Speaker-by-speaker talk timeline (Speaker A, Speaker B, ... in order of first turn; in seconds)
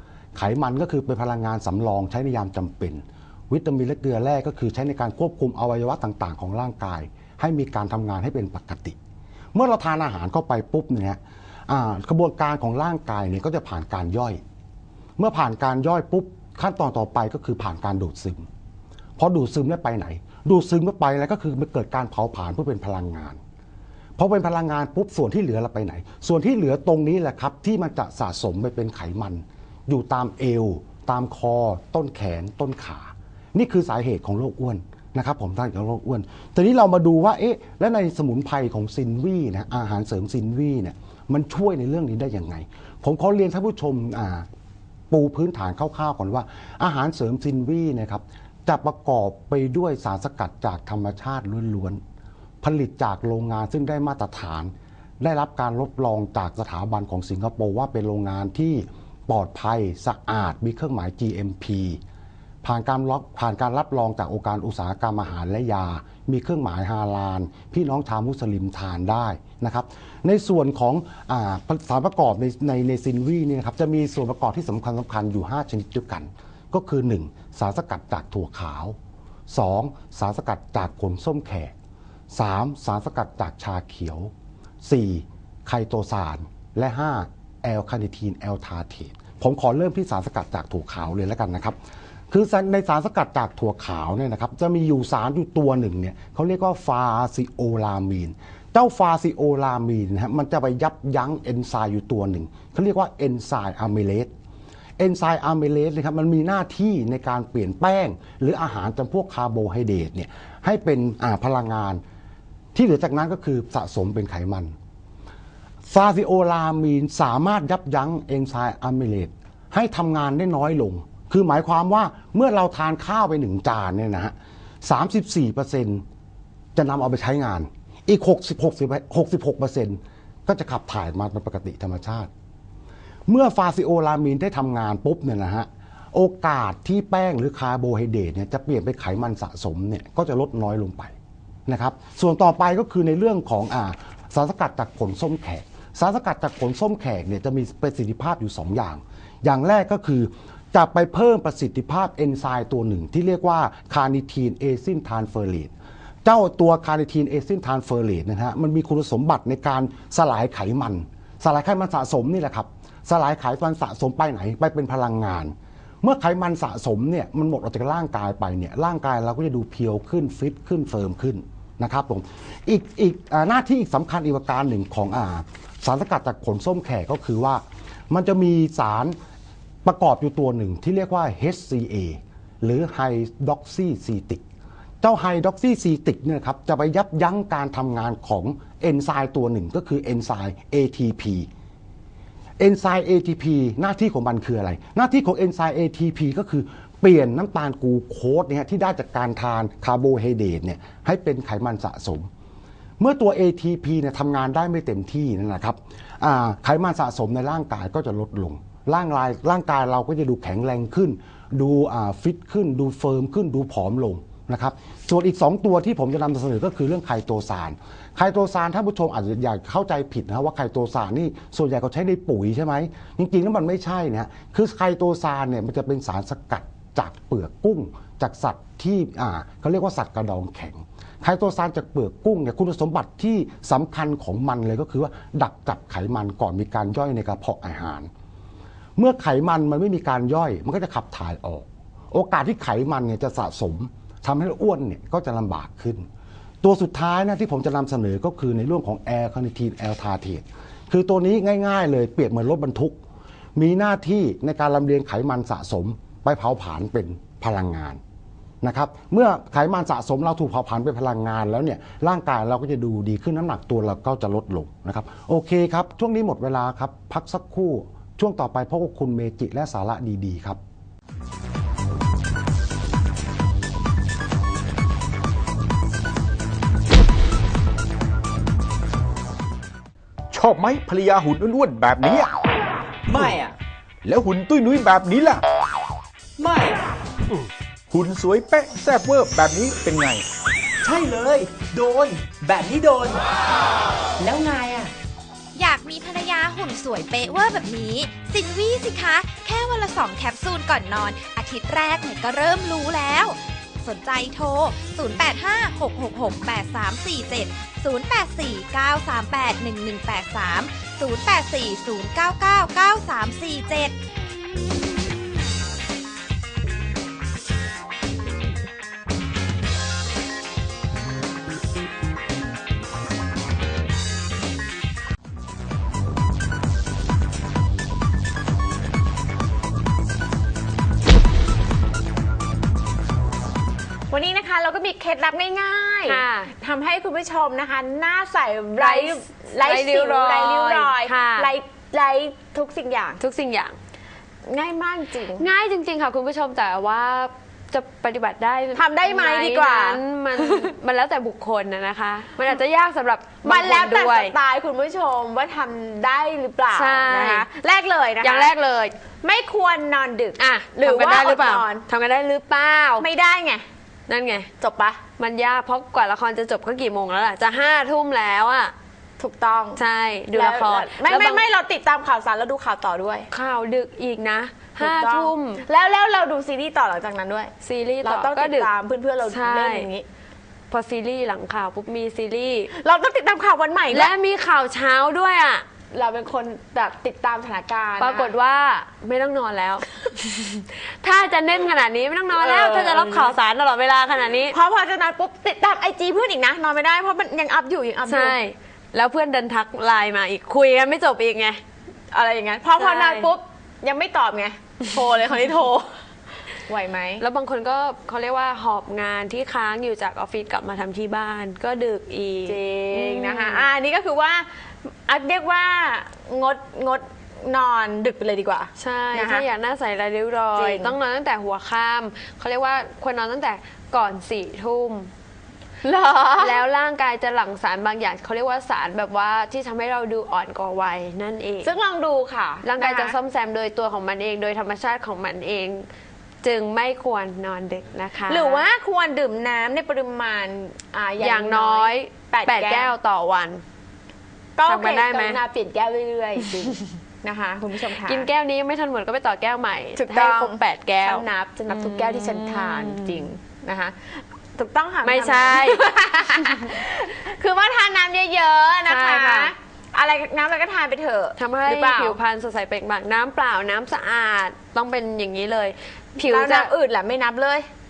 Speaker A: 0.3-9.0, 9.5-14.4, 15.2-18.5, 19.2-23.4, 24.2-44.5, 45.1-52.0, 52.6-62.0, 62.6-79.0, 79.5-81.7, 82.3-84.3, 84.8-91.8, 92.3-104.3, 105.0-112.0, 112.8-114.7, 115.9-126.0, 126.8-132.3, 133.3-141.1, 141.7-155.7, 156.2-179.2, 179.8-184.4, 185.0-191.5, 192.6-202.3, 203.0-238.1, 239.0-246.1, 246.6-253.0, 253.6-258.0, 258.6-270.6
Speaker B: 280.3-282.3, 284.1-285.4, 287.9-290.2
Speaker C: 283.1-283.6, 286.4-286.8, 290.8-293.2, 294.2-294.9
Speaker D: 295.6-314.0
Speaker E: 334.1-343.2, 344.5-345.4, 348.8-350.7, 353.4-358.5, 359.2-361.8, 363.0-363.6, 364.6-365.0, 369.2-369.8, 370.3-373.3, 374.8-377.5, 378.0-380.1, 382.8-384.1, 385.9-388.3, 392.3-393.4, 394.5-398.4, 402.1-405.9, 406.7-407.2, 412.5-414.5, 415.1-419.4, 420.6-420.9, 425.8-426.6, 431.6-433.2, 438.3-442.9, 444.6-448.3, 450.0-462.2, 466.2-467.7
Speaker F: 336.1-336.5, 338.8-341.5, 343.2-343.8, 345.4-354.3, 356.7-357.4, 358.2-358.9, 360.4-363.1, 364.1-364.5, 365.2-368.7, 369.8-371.4, 373.3-375.6, 377.6-378.7, 379.2-379.9, 380.7-382.7, 383.9-385.6, 388.0-394.6, 398.1-401.6, 402.8-403.3, 407.2-413.7, 418.8-425.1, 426.4-431.7, 432.6-435.9, 436.4-438.6, 441.2-443.6, 444.7-445.4, 448.1-453.2, 455.0-455.9, 458.9-459.5, 461.4-466.7